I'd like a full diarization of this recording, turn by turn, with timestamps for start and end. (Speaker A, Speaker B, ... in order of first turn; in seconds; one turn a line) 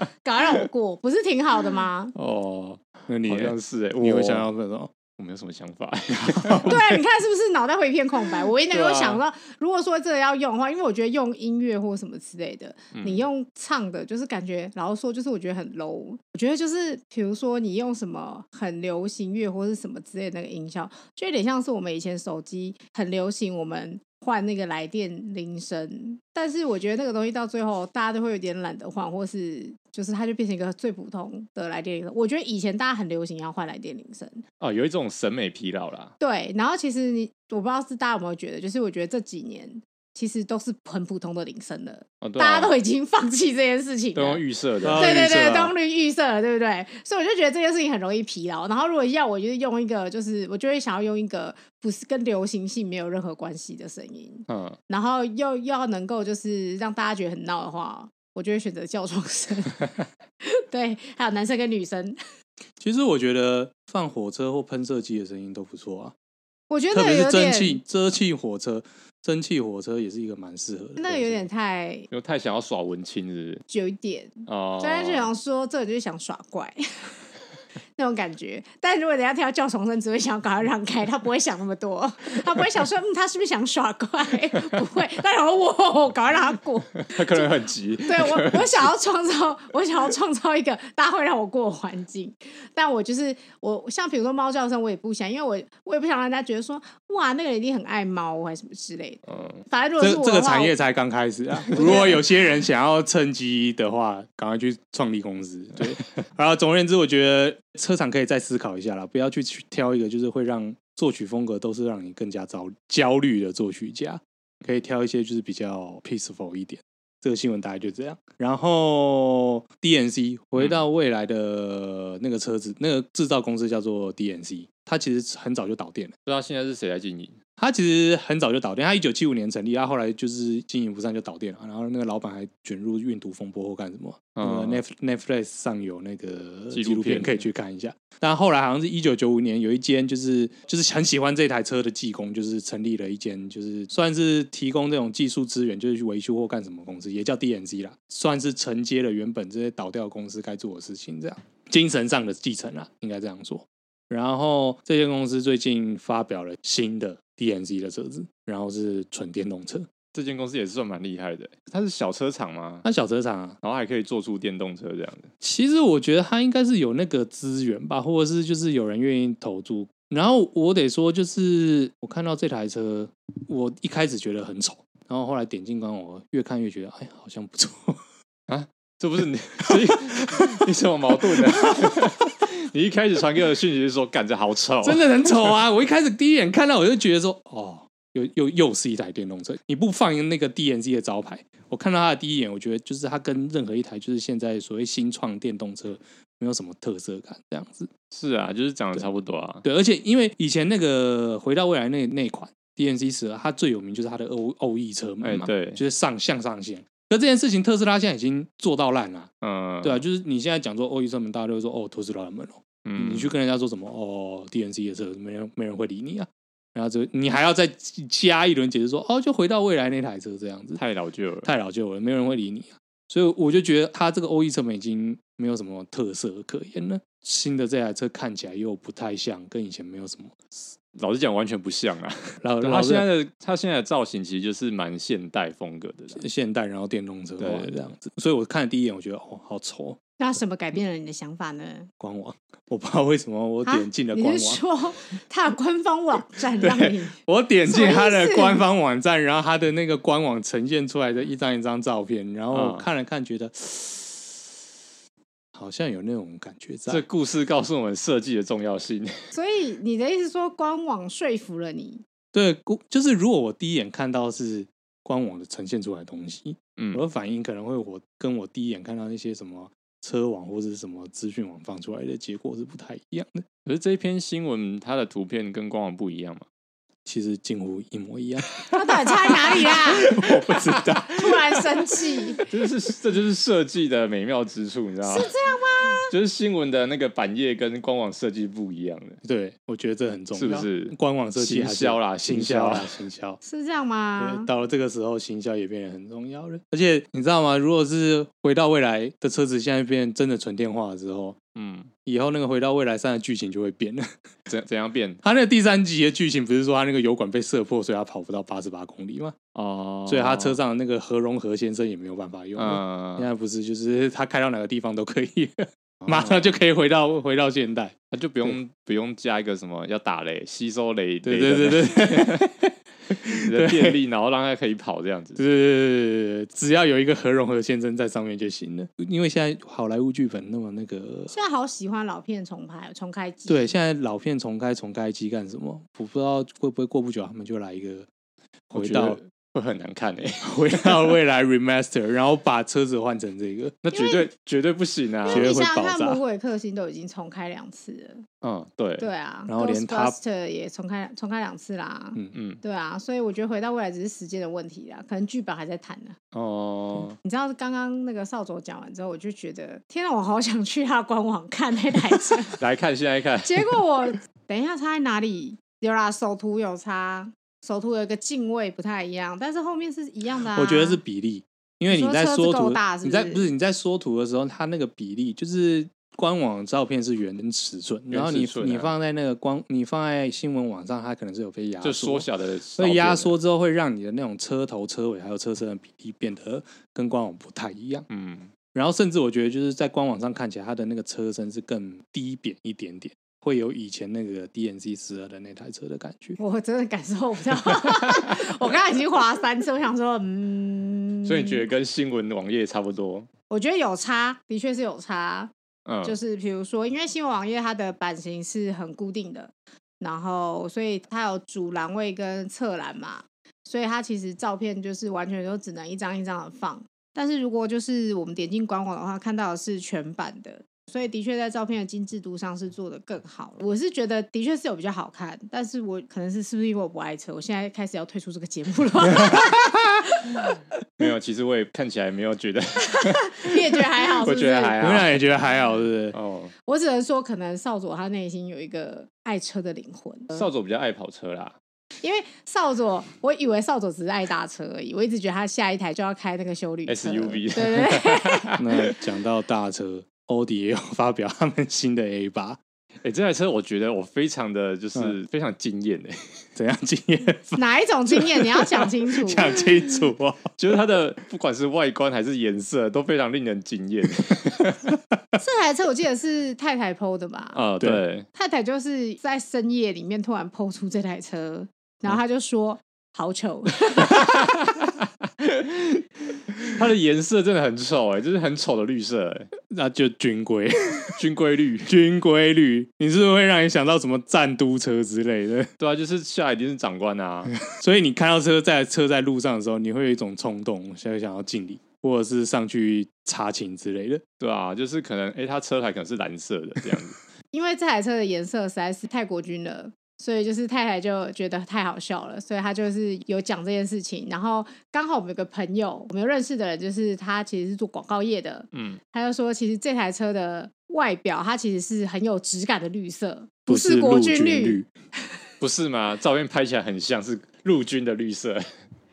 Speaker A: 0.2-2.1
Speaker B: 2.1-4.5
Speaker C: 3.1-4.9
Speaker B: 5.2-6.8
Speaker C: 6.2-6.8
Speaker A: 6.6-34.4
Speaker B: 8.7-9.2
Speaker B: 12.9-13.3
Speaker B: 34.6-36.1
Speaker A: 36.2-44.4
Speaker B: 42.2-42.8
Speaker B: 44.1-45.3
Speaker C: 44.8-45.7
Speaker A: 45.0-62.2
Speaker B: 54.5-54.8
Speaker C: 62.8-66.1
Speaker A: 66.7-67.8
Speaker C: 66.9-71.4
Speaker A: 71.0-72.1
Speaker B: 72.1-73.6
Speaker A: 73.7-77.2
Speaker B: 74.5-75.3
Speaker A: 78.0-100.8
Speaker B: 87.1-88.9
Speaker B: 99.3-99.6
Speaker C: 100.0-126.1
Speaker A: 101.7-102.2
Speaker B: 126.2-127.4
Speaker C: 127.6-159.9
Speaker B: 134.3-134.8
Speaker B: 136.7-137.5
Speaker B: 160.1-162.8
Speaker C: 162.8-163.6
Speaker B: 163.6-165.3
Speaker C: 165.4-178.0
Speaker B: 178.5-185.6
Speaker C: 179.7-180.6
Speaker C: 181.3-182.0
Speaker C: 184.8-197.9
Speaker B: 198.1-199.6
Speaker C: 199.6-220.8
Speaker B: 205.2-205.8
Speaker B: 209.4-210.0
Speaker B: 212.8-213.3
Speaker B: 220.8-221.5
Speaker C: 221.4-230.5
Speaker B: 230.9-236.2
Speaker C: 232.4-233.1
Speaker C: 236.1-240.0
Speaker B: 237.4-237.8
Speaker A: 240.2-241.9
Speaker C: 242.0-244.6
Speaker A: 243.6-248.6
Speaker B: 246.6-246.9
Speaker C: 247.1-254.3
Speaker B: 252.5-252.8
Speaker C: 255.5-257.0
Speaker B: 256.9-259.1
Speaker A: 259.3-262.0
Speaker C: 262.3-273.4
Speaker B: 266.8-267.0
Speaker B: 273.6-276.4
Speaker C: 277.0-281.6
Speaker A: 278.7-280.1
Speaker B: 279.7-281.0
Speaker A: 281.1-282.4
Speaker B: 282.5-285.3
Speaker A: 285.0-286.1
Speaker B: 286.0-289.2
Speaker C: 289.2-293.4
Speaker B: 290.3-293.0
Speaker A: 293.4-294.5
Speaker C: 294.2-301.4
Speaker B: 301.5-301.9
Speaker C: 302.0-304.1
Speaker B: 304.5-305.2
Speaker C: 305.2-309.4
Speaker B: 309.5-310.6
Speaker C: 310.1-318.6
Speaker B: 312.6-313.3
Speaker B: 316.0-316.4
Speaker B: 318.1-322.5
Speaker C: 321.2-322.5
Speaker C: 323.1-324.0
Speaker B: 323.4-325.4
Speaker C: 325.4-331.3
Speaker A: 331.3-333.7
Speaker C: 333.5-338.1
Speaker C: 338.7-339.2
Speaker B: 338.7-341.1
Speaker C: 340.4-343.8
Speaker B: 343.8-345.5
Speaker A: 343.9-344.3
Speaker A: 345.2-348.2
Speaker C: 345.3-346.2
Speaker B: 348.4-349.1
Speaker A: 349.0-356.2
Speaker C: 349.5-350.1
Speaker B: 352.3-352.6
Speaker B: 356.3-357.2
Speaker A: 357.2-362.6
Speaker B: 362.6-363.6
Speaker A: 363.4-371.0
Speaker C: 370.5-388.1
Speaker A: 371.9-373.5
Speaker B: 378.1-378.9
Speaker B: 381.8-383.4
Speaker B: 388.1-388.5
Speaker C: 388.7-396.4
Speaker A: 396.4-401.7
Speaker B: 397.9-398.4
Speaker B: 401.2-403.3
Speaker A: 403.5-405.5
Speaker B: 405.9-406.2
Speaker A: 406.0-430.6
Speaker B: 431.0-435.2
Speaker A: 432.9-434.8
Speaker C: 434.8-436.1
Speaker B: 436.1-436.5
Speaker A: 436.6-440.5
Speaker B: 440.3-441.6
Speaker A: 442.0-448.5
Speaker B: 446.9-448.9
Speaker C: 448.6-452.6
Speaker B: 453.0-456.1
Speaker C: 456.6-460.5
Speaker A: 457.6-459.6
Speaker B: 460.6-464.9
Speaker A: 465.4-467.6
Speaker B: 467.5-468.3
Speaker A: 468.3-474.7
Speaker B: 474.1-476.1
Speaker B: 476.7-479.5
Speaker C: 479.7-481.1
Speaker B: 481.1-481.9
Speaker C: 481.8-485.7
Speaker B: 485.8-487.5
Speaker C: 487.7-494.2
Speaker B: 494.4-497.2
Speaker A: 497.5-514.8
Speaker B: 508.7-509.0
Speaker C: 513.7-514.9
Speaker B: 515.6-518.6